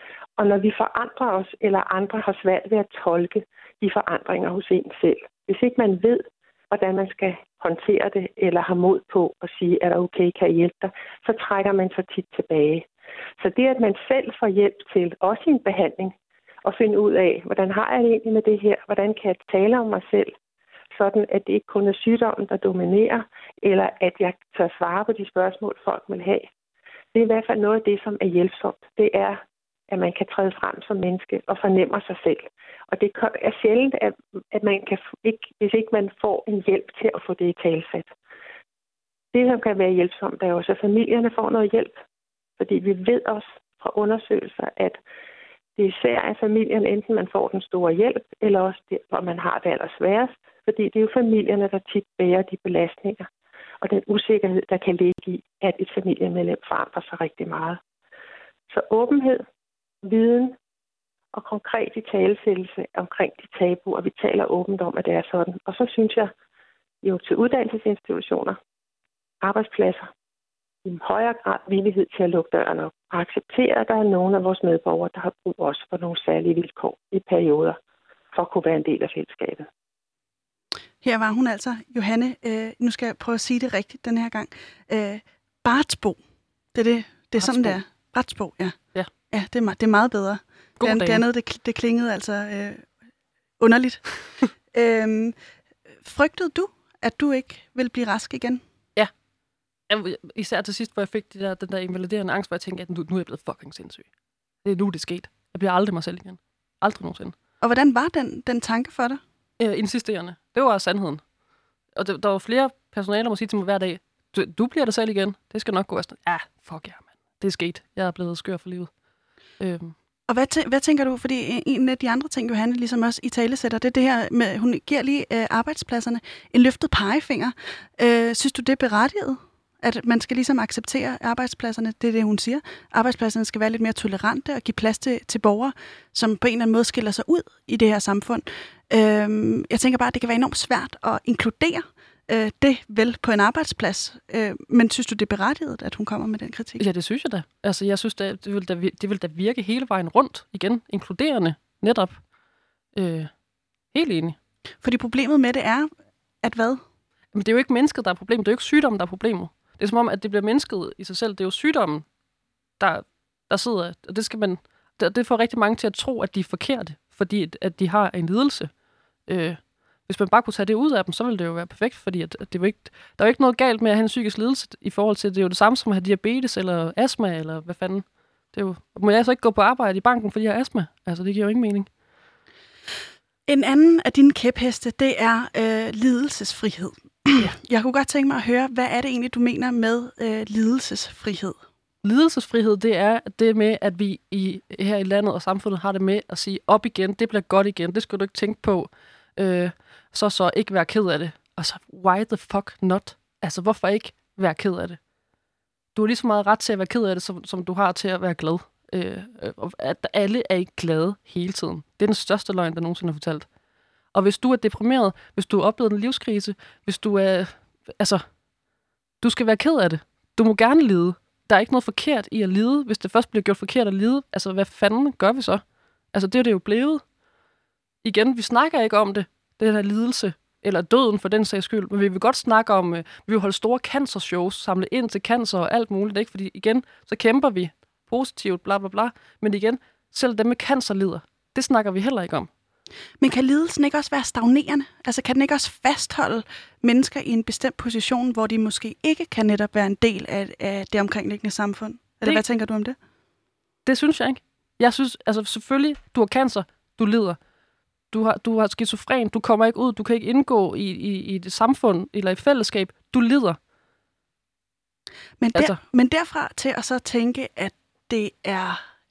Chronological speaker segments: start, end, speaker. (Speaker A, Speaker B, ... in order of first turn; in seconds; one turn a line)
Speaker A: 0.4-20.3
Speaker A: 20.9-26.5
Speaker A: 27.1-38.1
Speaker A: 39.3-42.0
Speaker A: 42.6-45.0
Speaker A: 45.8-53.3
Speaker A: 53.8-57.8
Speaker A: 58.7-59.4
Speaker A: 60.0-60.5
Speaker A: 61.3-66.3
Speaker A: 67.0-68.6
Speaker A: 69.4-70.1
Speaker A: 70.8-77.8
Speaker A: 78.3-79.7
Speaker B: 81.0-86.2
Speaker B: 86.7-92.9
Speaker C: 87.4-87.8
Speaker C: 90.8-91.2
Speaker B: 93.6-95.3
Speaker B: 96.0-98.6
Speaker C: 99.9-104.1
Speaker C: 104.6-107.3
Speaker B: 107.6-109.2
Speaker C: 109.6-111.2
Speaker C: 111.9-118.9
Speaker C: 119.6-119.9
Speaker B: 120.3-146.8
Speaker C: 146.8-152.2
Speaker C: 152.9-153.3
Speaker C: 153.9-154.4
Speaker B: 154.8-155.9
Speaker B: 156.4-156.8
Speaker C: 157.3-162.1
Speaker C: 162.8-168.7
Speaker C: 169.3-181.9
Speaker B: 183.5-191.6
Speaker C: 192.0-205.0
Speaker C: 205.9-213.5
Speaker C: 214.1-218.2
Speaker C: 219.2-227.0
Speaker C: 228.0-242.5
Speaker B: 243.2-252.9
Speaker C: 253.8-257.4
Speaker C: 258.1-263.6
Speaker B: 265.4-268.8